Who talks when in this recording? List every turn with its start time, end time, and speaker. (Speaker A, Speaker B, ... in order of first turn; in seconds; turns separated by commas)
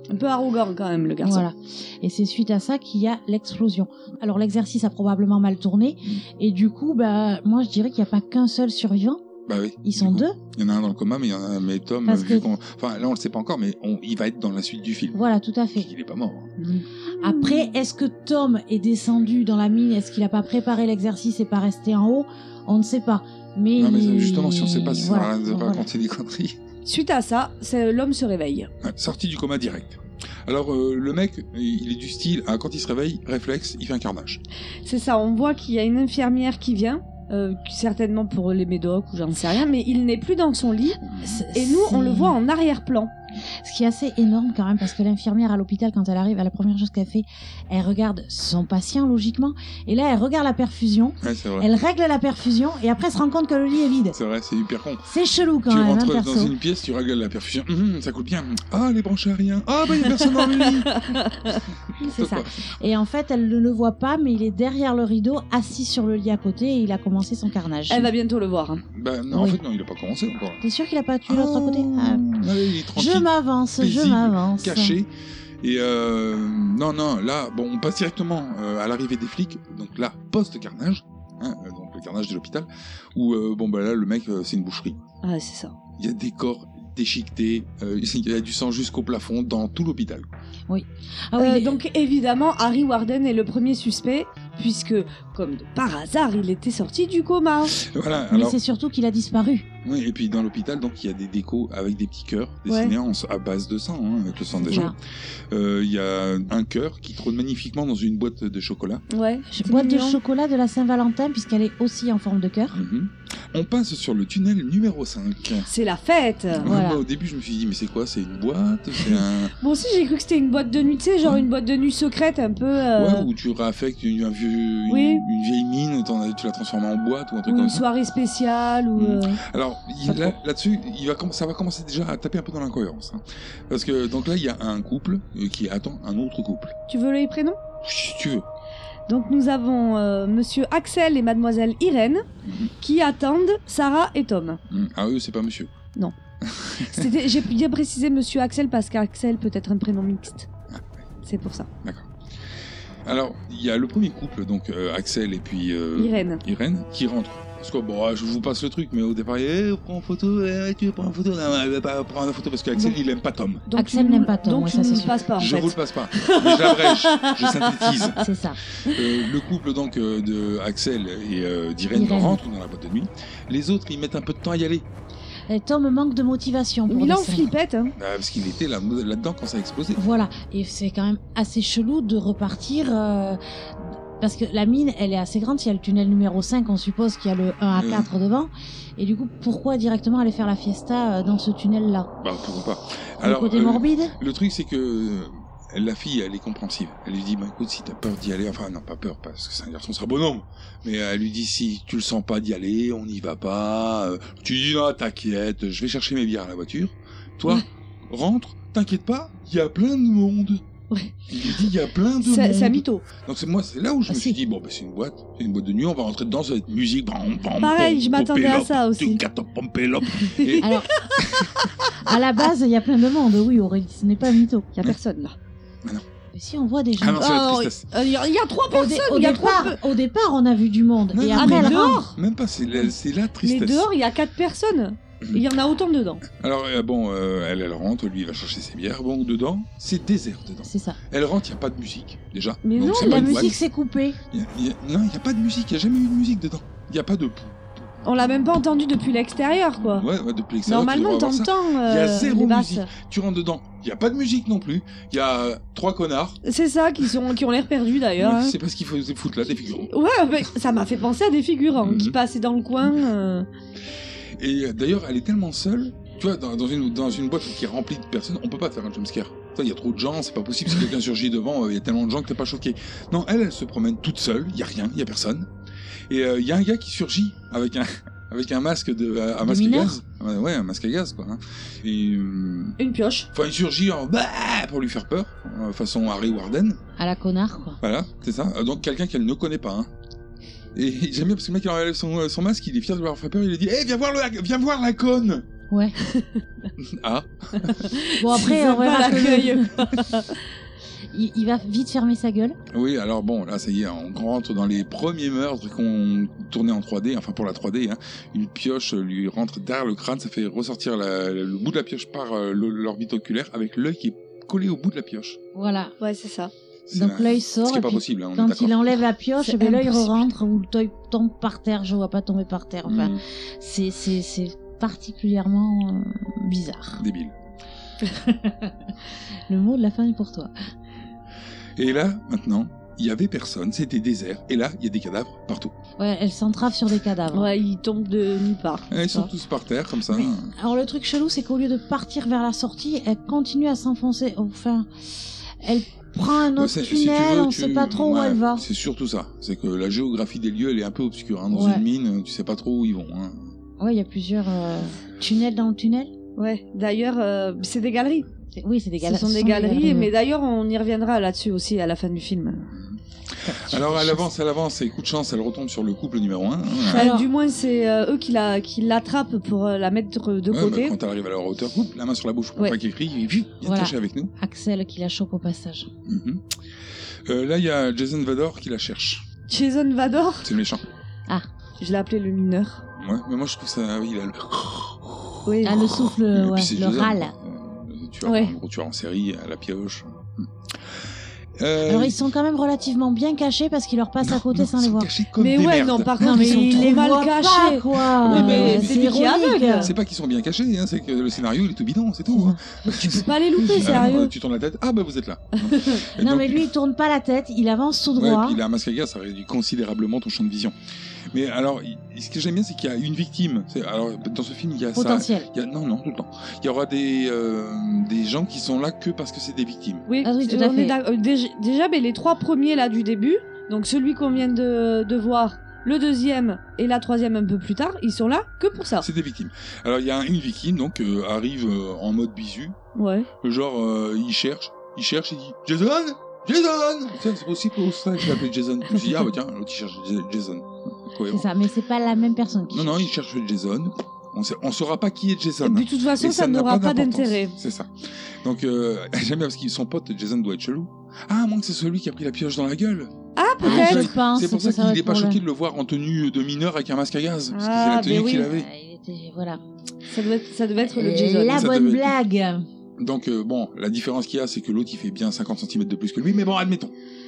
Speaker A: 0.1-1.5, Speaker B: 1.2-9.2, Speaker C: 9.5-15.2, Speaker B: 9.8-10.4, Speaker B: 12.1-12.5, Speaker B: 15.1-15.9, Speaker C: 15.8-16.5, Speaker A: 16.6-17.7, Speaker B: 17.2-25.9, Speaker C: 23.8-26.6, Speaker A: 26.9-28.7, Speaker C: 28.8-34.4, Speaker A: 34.9-41.0, Speaker C: 41.0-41.4, Speaker B: 41.2-42.4, Speaker A: 41.5-43.1, Speaker B: 43.6-54.2, Speaker C: 51.2-51.7, Speaker C: 54.1-55.1, Speaker B: 55.1-56.5, Speaker C: 55.7-61.0, Speaker A: 60.4-61.6, Speaker C: 62.0-62.5, Speaker B: 62.0-68.1, Speaker A: 67.9-68.8, Speaker C: 68.8-70.6, Speaker B: 69.3-69.6, Speaker B: 70.6-72.4, Speaker C: 71.3-75.1, Speaker B: 72.9-75.0, Speaker C: 75.6-85.0, Speaker A: 85.2-85.8, Speaker C: 86.0-90.3, Speaker B: 90.7-91.8, Speaker A: 91.4-97.8, Speaker C: 97.8-98.6, Speaker B: 98.3-99.7, Speaker C: 99.8-105.0, Speaker A: 102.7-102.9, Speaker B: 104.6-105.0, Speaker C: 105.5-109.0, Speaker A: 109.1-110.2, Speaker B: 109.5-112.8, Speaker C: 112.7-115.7, Speaker A: 115.7-116.7, Speaker C: 116.6-119.5, Speaker B: 116.6-117.0, Speaker A: 119.6-123.3, Speaker C: 123.0-127.8, Speaker A: 124.9-125.2, Speaker A: 127.5-129.4, Speaker C: 129.0-136.7, Speaker B: 130.1-130.3, Speaker A: 136.9-137.6, Speaker C: 137.8-138.4, Speaker A: 139.1-142.2, Speaker C: 142.4-142.7, Speaker A: 142.8-144.6, Speaker C: 144.7-145.7, Speaker C: 146.4-147.1, Speaker A: 146.9-150.5, Speaker A: 151.2-151.7, Speaker C: 153.1-163.7, Speaker A: 155.9-156.4, Speaker A: 163.7-168.0, Speaker B: 163.8-165.2, Speaker C: 165.4-168.2, Speaker B: 168.2-168.6, Speaker C: 168.9-174.8, Speaker B: 171.9-172.4, Speaker B: 175.5-177.5, Speaker A: 176.9-177.9, Speaker C: 178.0-180.0, Speaker B: 180.0-192.1, Speaker C: 187.8-188.1, Speaker C: 192.2-210.6, Speaker B: 193.2-194.2, Speaker A: 210.9-211.6, Speaker C: 211.3-221.5, Speaker A: 212.2-213.1, Speaker B: 214.1-214.4, Speaker A: 217.6-219.2, Speaker A: 220.2-221.1, Speaker B: 220.6-220.9, Speaker B: 222.0-224.7, Speaker A: 224.8-225.4, Speaker B: 226.3-227.3, Speaker C: 227.0-227.8, Speaker A: 227.2-229.8, Speaker B: 228.7-232.0, Speaker C: 231.1-233.9, Speaker A: 231.3-232.2, Speaker A: 233.4-236.2, Speaker C: 236.4-243.6, Speaker B: 240.6-241.0, Speaker A: 242.6-243.5, Speaker B: 242.8-244.2, Speaker C: 244.3-249.1, Speaker A: 248.1-250.1, Speaker C: 249.8-256.4, Speaker A: 250.7-252.9, Speaker A: 256.4-258.6, Speaker C: 258.2-259.9, Speaker A: 259.9-263.5, Speaker C: 261.8-262.2, Speaker C: 264.4-275.5, Speaker C: 276.1-282.8, Speaker B: 279.4-280.0, Speaker A: 282.8-283.3, Speaker C: 283.3-286.8, Speaker B: 287.0-287.8, Speaker C: 287.8-289.9, Speaker C: 290.8-295.5, Speaker B: 295.7-296.1, Speaker A: 296.0-296.4, Speaker C: 296.8-297.9, Speaker A: 297.6-300.4, Speaker B: 298.2-299.7, Speaker B: 301.1-302.6, Speaker C: 302.7-315.4, Speaker B: 315.6-315.9, Speaker A: 316.0-316.5, Speaker C: 316.9-318.9, Speaker B: 316.9-327.0, Speaker A: 319.4-320.2, Speaker C: 322.9-323.2, Speaker C: 327.0-327.3, Speaker B: 328.1-328.8, Speaker B: 329.5-330.5, Speaker C: 331.8-335.7, Speaker B: 336.0-337.6, Speaker A: 337.3-339.3, Speaker C: 338.9-340.5, Speaker B: 340.1-344.9, Speaker B: 345.6-348.7, Speaker C: 346.6-353.5, Speaker B: 351.5-351.9, Speaker B: 353.8-356.1, Speaker A: 356.4-358.3, Speaker B: 358.6-360.1, Speaker A: 359.0-362.7, Speaker C: 362.7-367.1, Speaker B: 363.5-364.2, Speaker B: 366.9-367.3, Speaker A: 366.9-370.9, Speaker C: 370.5-374.3, Speaker B: 373.6-375.9, Speaker C: 376.1-376.4, Speaker C: 377.3-379.2, Speaker A: 379.5-380.5, Speaker C: 380.4-380.8, Speaker A: 381.8-382.8, Speaker C: 383.0-390.5, Speaker A: 385.5-385.8, Speaker B: 385.6-387.3, Speaker A: 388.2-388.5, Speaker C: 391.6-392.3, Speaker B: 391.8-395.1, Speaker C: 394.2-397.2, Speaker A: 395.4-399.9, Speaker B: 396.2-399.9, Speaker C: 398.2-399.1, Speaker C: 399.8-406.7, Speaker B: 402.3-402.6, Speaker A: 402.9-404.3, Speaker B: 403.7-404.1, Speaker A: 405.6-406.0, Speaker B: 406.2-408.6, Speaker C: 408.2-410.7, Speaker C: 411.3-420.1, Speaker B: 414.9-415.5, Speaker A: 420.1-429.1, Speaker B: 420.2-421.0, Speaker C: 429.0-432.8, Speaker A: 433.0-433.3, Speaker C: 433.4-441.5, Speaker B: 441.3-442.9, Speaker C: 442.7-447.9, Speaker A: 445.6-447.6, Speaker C: 448.4-458.7, Speaker A: 453.4-454.1, Speaker B: 453.6-455.4, Speaker A: 457.5-458.5, Speaker B: 458.3-459.6, Speaker A: 460.1-461.6, Speaker B: 460.8-462.7, Speaker C: 461.5-462.1, Speaker C: 463.0-466.9